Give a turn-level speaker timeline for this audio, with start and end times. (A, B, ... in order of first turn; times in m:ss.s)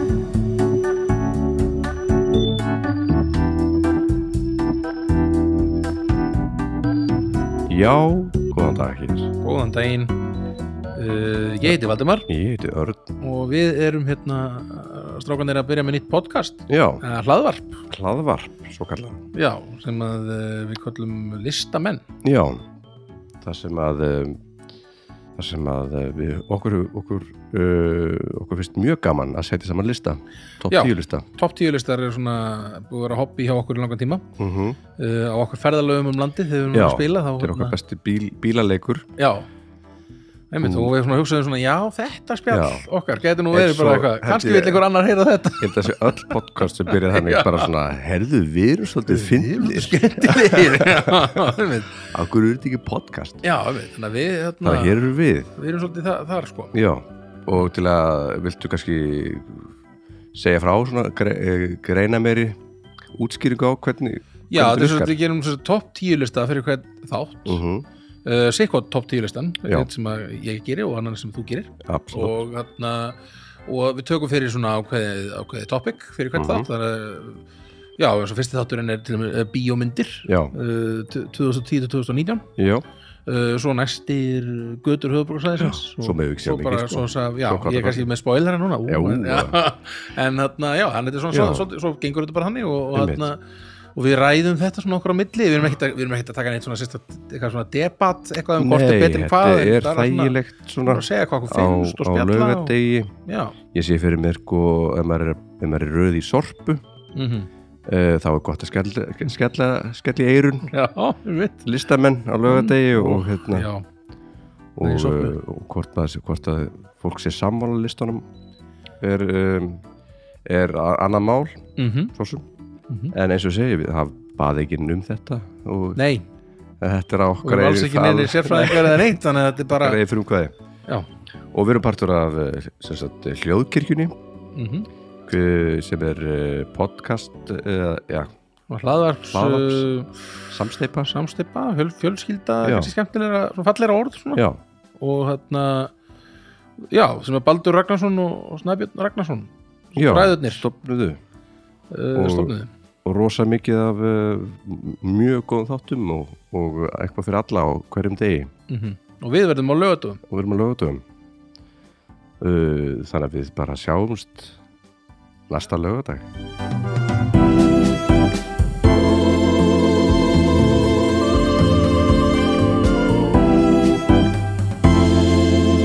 0:07.7-0:09.3 A
0:09.4-0:10.1 B
0:11.0-0:12.3 B
0:12.3-0:13.1 A
0:13.2-0:17.8 B
0:16.7-0:17.0 A
0:17.9-0:19.2 A
0:19.3-0:22.0 B
0:22.2-0:22.6 A
0:23.4-0:24.4 A
0:25.4-0:31.3 A
0:30.7-0:34.2 B
0:34.4-0:34.8 A
0:35.0-0:37.8 B
0:36.7-0:39.1 A
0:39.2-0:39.5 B
0:40.5-0:47.7 B
0:40.6-0:40.9 A
0:42.5-0:42.8 A
0:43.5-0:44.8 A
0:45.6-0:53.4 A
0:49.1-0:52.0 B
0:53.4-0:55.0 B
0:54.6-0:55.5 A
0:55.6-0:56.8 B
0:56.7-0:59.7 A
1:00.3-1:02.6 A
1:03.2-1:05.2 A
1:04.5-1:07.6 B
1:07.4-1:07.9 A
1:08.2-1:17.4 B
1:11.8-1:12.4 A
1:16.3-1:16.7 A
1:18.0-1:22.4 B
1:20.2-1:20.5 A
1:22.6-1:22.8 A
1:23.2-1:33.4 B
1:25.6-1:28.1 A
1:28.9-1:29.6 A
1:31.3-1:31.7 A
1:32.9-1:33.3 A
1:33.9-1:43.6 B
1:38.6-1:43.1 A
1:43.7-1:46.8 A
1:47.2-1:47.5 B
1:47.9-1:50.7 A
1:50.7-1:51.6 B
1:51.6-1:53.7 A
1:52.4-1:53.8 B
1:54.8-1:58.2 A
1:54.8-1:55.4 B
1:59.0-1:59.8 A
2:00.5-2:02.4 A
2:01.8-2:02.1 B
2:02.9-2:03.1 B
2:03.1-2:06.0 A
2:06.0-2:06.2 B
2:06.8-2:09.1 A
2:07.4-2:10.0 B
2:09.7-2:10.5 A
2:11.5-2:14.1 A
2:14.5-2:14.9 B
2:15.3-2:18.3 A
2:18.7-2:20.2 B
2:19.3-2:19.9 A
2:20.5-2:21.1 A
2:21.1-2:24.4 B
2:22.6-2:22.9 A
2:25.0-2:25.9 B
2:26.9-2:30.7 B
2:30.0-2:31.2 A
2:31.9-2:32.7 B
2:32.2-2:38.5 A
2:38.7-2:40.2 B
2:40.3-2:41.0 A
2:42.4-2:44.6 A
2:45.5-2:46.3 A